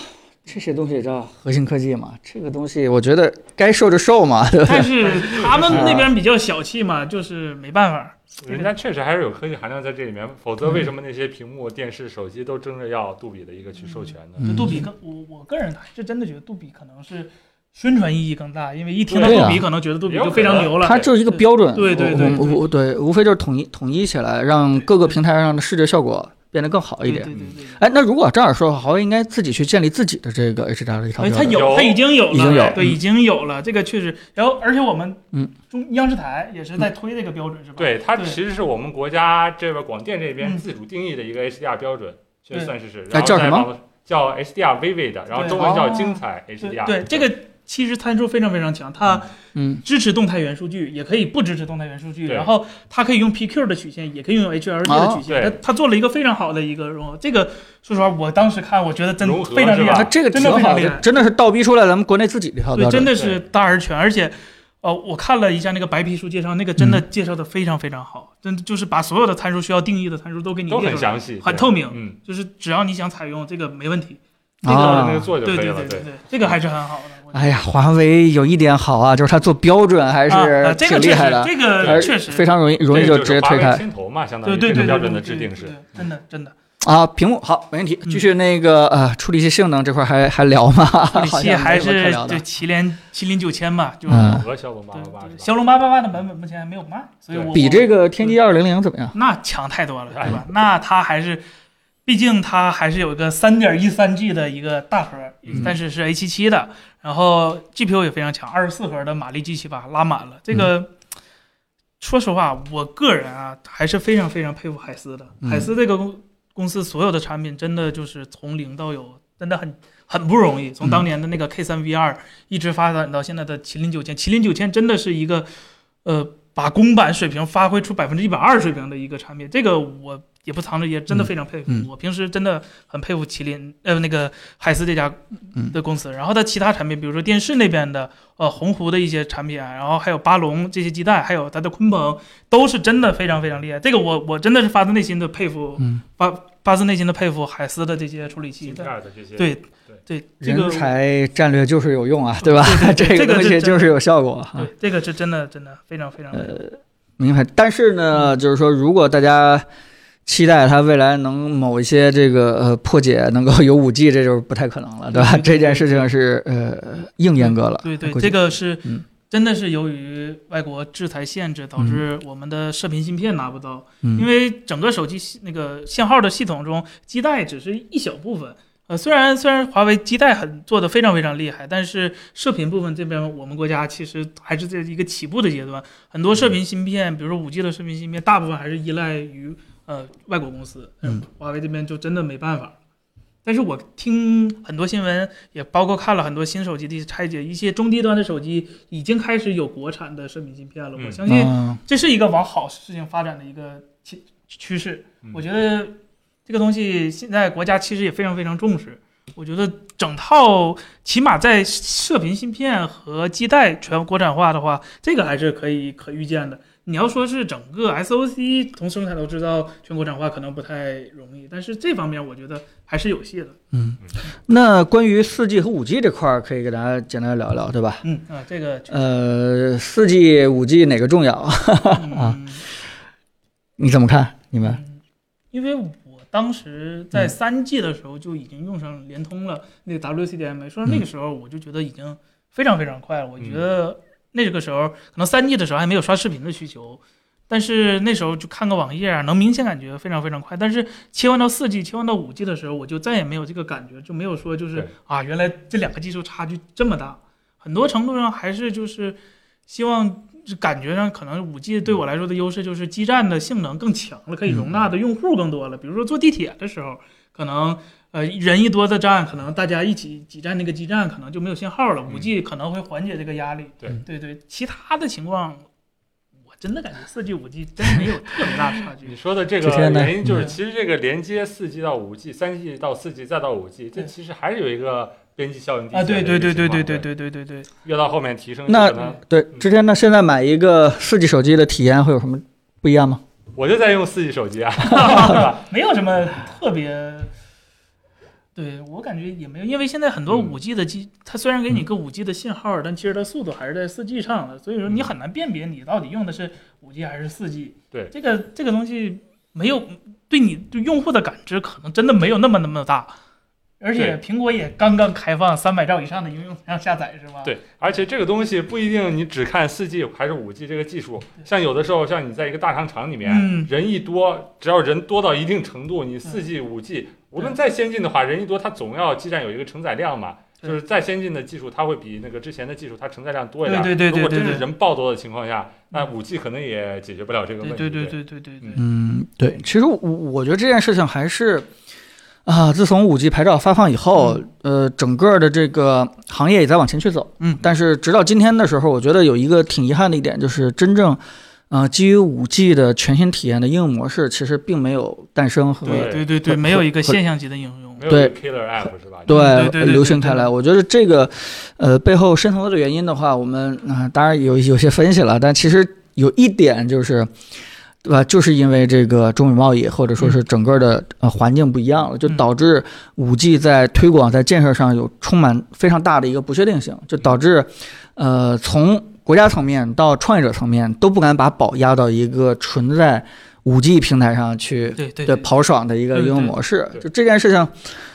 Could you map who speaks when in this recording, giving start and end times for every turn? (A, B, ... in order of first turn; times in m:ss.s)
0:00.4-0:06.1 A
0:04.6-0:08.7 B
0:05.3-0:05.9 C
0:08.4-0:14.5 C
0:13.8-0:22.6 B
0:14.4-0:14.8 A
0:19.1-0:21.1 C
0:19.2-0:19.6 A
0:20.7-0:31.7 A
0:24.7-0:25.2 B
0:27.0-0:27.8 B
0:27.3-0:27.6 C
0:31.2-0:38.4 B
0:31.5-0:32.8 C
0:32.3-0:33.0 A
0:37.8-0:47.3 C
0:43.1-0:43.7 A
0:45.3-0:49.3 B
0:49.5-0:49.8 A
0:49.8-1:01.0 B
0:52.2-0:52.5 C
0:54.8-0:55.2 A
0:55.3-0:55.6 C
0:59.2-1:00.1 C
0:59.9-1:03.1 A
1:02.7-1:17.6 B
1:03.2-1:03.4 C
1:06.8-1:07.0 A
1:10.7-1:12.2 C
1:14.6-1:15.3 A
1:14.7-1:16.5 C
1:17.3-1:23.8 A
1:20.3-1:22.4 B
1:21.8-1:22.0 C
1:22.9-1:26.0 C
1:24.4-1:26.5 B
1:24.7-1:25.0 A
1:26.8-1:32.4 A
1:31.1-1:38.4 B
1:34.1-1:34.5 A
1:34.1-1:35.5 C
1:37.3-1:37.6 C
1:37.5-1:39.1 A
1:39.1-1:41.4 B
1:40.1-1:40.4 C
1:42.0-1:50.9 B
1:52.0-2:05.5 B
1:55.4-1:55.7 A
2:06.0-2:30.9 B
2:11.1-2:11.8 A
2:28.6-2:30.0 C
2:30.4-2:34.7 A
2:32.4-2:34.0 B
2:34.6-2:36.6 B
2:36.3-2:39.6 A
2:40.2-2:49.0 A
2:45.1-2:46.1 B
2:47.4-3:12.8 B
2:54.0-2:54.3 A
3:13.4-3:43.6 B
3:21.2-3:21.8 A
3:43.7-3:48.0 A
3:48.0-3:49.0 B
3:48.9-3:52.4 A
3:51.9-3:52.6 B
3:53.8-3:54.8 A
3:54.6-3:55.0 B
3:55.5-4:35.7 B
4:36.5-4:39.1 B
4:39.0-4:47.1 C
4:39.6-4:40.5 A
4:40.3-4:40.5 B
4:45.9-4:47.7 B
4:47.8-4:49.2 C
4:48.7-4:53.2 A
4:53.5-4:55.6 C
4:54.8-4:57.3 B
4:58.6-5:13.2 B
5:00.3-5:00.5 C
5:13.8-5:17.5 B
5:17.4-5:38.8 C
5:23.2-5:23.7 B
5:33.6-5:34.7 B
5:37.6-5:38.8 B
5:38.8-5:41.7 A
5:42.4-5:57.2 A
5:44.2-5:44.4 B
5:55.8-5:58.1 B
5:55.9-5:56.3 C
5:58.0-5:59.3 C
5:58.1-5:58.3 A
5:59.3-6:07.3 A
5:59.3-6:00.5 B
6:08.0-6:27.7 A
6:25.0-6:25.5 B
6:26.1-6:26.5 B